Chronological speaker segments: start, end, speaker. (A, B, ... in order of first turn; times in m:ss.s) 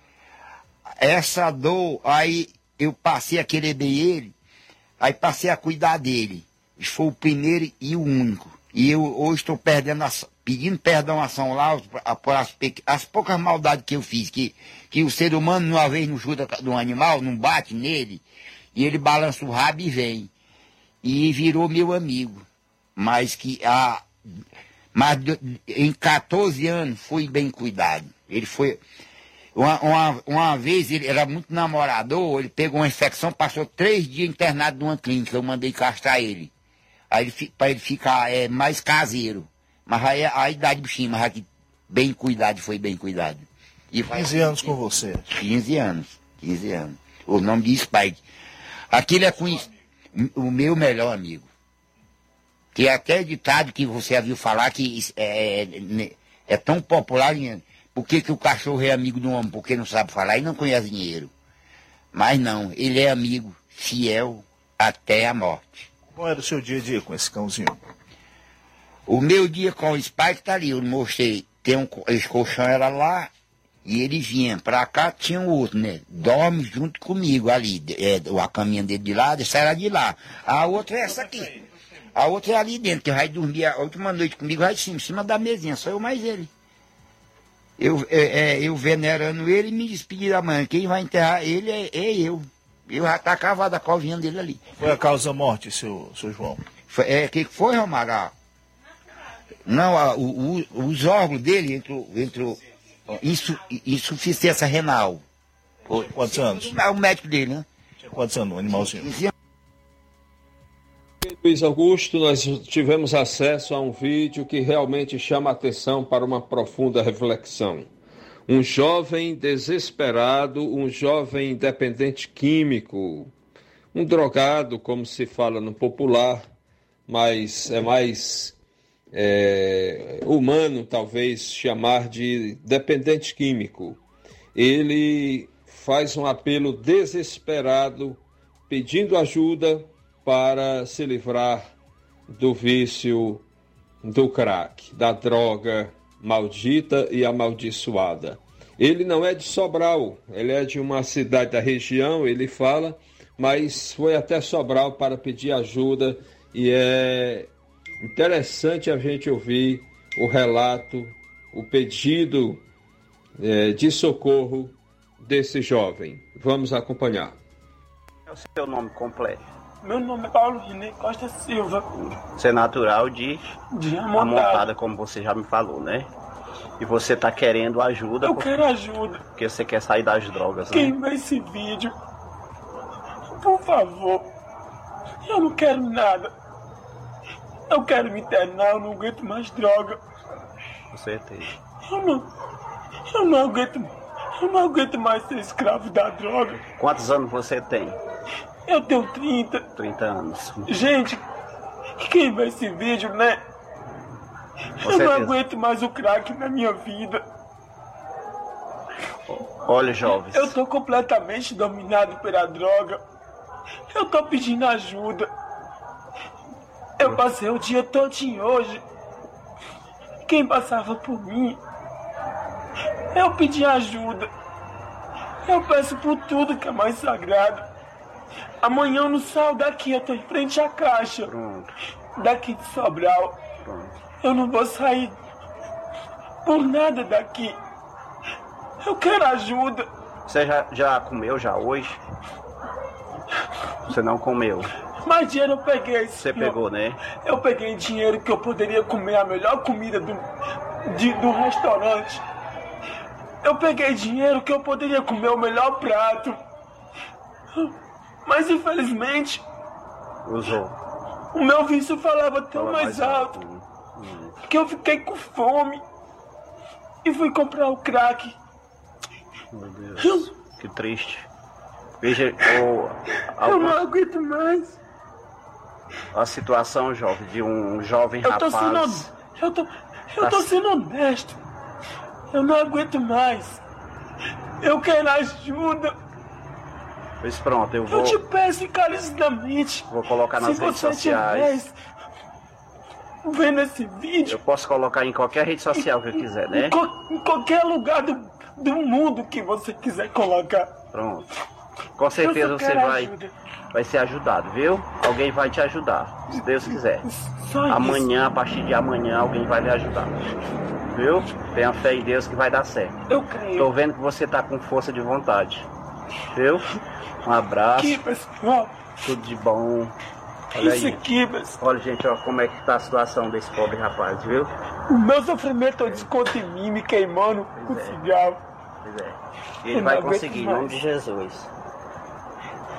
0:01.0-0:04.3 A
0:05.0-0:18.2 A
0:18.7-0:20.3 A
0:21.0-0:22.4 A
0:23.0-0:24.1 A
0:24.9-0:28.8 A
0:29.6-0:36.5 A
0:37.1-0:44.3 A
0:44.1-0:45.2 B
0:45.3-0:48.2 A
0:48.9-0:51.4 A
0:52.7-1:01.3 A
1:02.1-1:05.9 A
1:06.2-1:07.8 B
1:09.1-1:13.3 A
1:13.8-1:21.6 A
1:22.1-1:26.5 A
1:27.8-1:34.6 A
1:34.8-1:36.6 B
1:36.9-1:38.3 A
1:39.6-1:42.6 A
1:43.1-1:45.2 A
1:45.9-1:46.7 B
1:46.6-1:47.6 A
1:48.0-1:49.1 B
1:48.9-1:49.3 A
1:51.2-1:57.9 C
1:58.5-2:03.3 C
2:03.9-2:06.5 C
2:07.1-2:08.6 C
2:09.1-2:14.0 C
2:14.6-2:21.7 C
2:22.3-2:23.4 C
2:24.0-2:37.5 C
2:38.0-2:42.6 C
2:43.4-2:47.4 C
2:48.3-2:49.4 D
2:49.8-2:51.9 E
2:52.0-2:53.4 D
2:53.7-2:54.6 E
2:54.2-2:56.1 D
2:56.8-2:58.6 D
2:58.2-2:59.2 E
2:59.4-3:00.9 D
3:00.7-3:01.9 E
3:03.4-3:04.2 E
3:05.3-3:06.3 E
3:07.7-3:10.0 E
3:10.9-3:11.5 D
3:11.9-3:12.2 E
3:13.1-3:16.6 E
3:16.7-3:18.0 D
3:18.7-3:19.6 E
3:19.8-3:20.7 D
3:20.7-3:21.2 E
3:22.0-3:23.4 E
3:24.8-3:25.4 D
3:24.9-3:27.2 E
3:29.3-3:30.5 D
3:30.3-3:33.0 E
3:33.9-3:35.3 E
3:37.0-3:38.8 E
3:40.3-3:41.6 E
3:43.1-3:44.3 E
3:45.4-3:47.6 E
3:48.6-3:51.3 E
3:51.2-3:51.7 D
3:52.2-3:53.4 E
3:53.6-3:53.9 D
3:54.2-3:55.2 E
3:56.4-3:57.6 E
3:58.8-3:59.9 E
4:00.3-4:02.0 D
4:03.9-4:04.7 D
4:05.0-4:06.6 E
4:06.2-4:07.0 D
4:07.2-4:10.2 E
4:10.9-4:12.2 E
4:13.4-4:16.4 E
4:18.2-4:19.4 E
4:20.2-4:20.7 D
4:21.3-4:23.4 E
4:22.5-4:24.3 D
4:24.5-4:25.8 E
4:27.0-4:28.4 E
4:29.5-4:31.2 D
4:32.0-4:33.8 D
4:33.4-4:34.7 E
4:36.1-4:39.0 D
4:38.3-4:41.4 E
4:42.3-4:43.6 E
4:44.6-4:45.9 E
4:47.2-4:48.2 D
4:47.9-4:49.9 E
4:49.9-4:51.6 D
4:50.4-4:51.7 E
4:53.2-4:54.4 E
4:54.3-4:56.7 D
4:56.5-5:00.8 E
5:00.9-5:01.3 D
5:02.0-5:03.1 D
5:02.2-5:03.3 E
5:03.7-5:07.0 D
5:06.4-5:08.1 E
5:07.7-5:10.2 D
5:10.9-5:13.0 D
5:13.1-5:13.7 E
5:13.6-5:15.6 D
5:16.3-5:16.7 D
5:17.2-5:18.0 D
5:17.8-5:18.9 E
5:19.0-5:19.9 D
5:20.6-5:21.0 D
5:20.6-5:21.6 E
5:21.6-5:24.5 D
5:24.9-5:28.4 E
5:27.5-5:28.0 D
5:28.8-5:31.5 D
5:29.7-5:30.7 E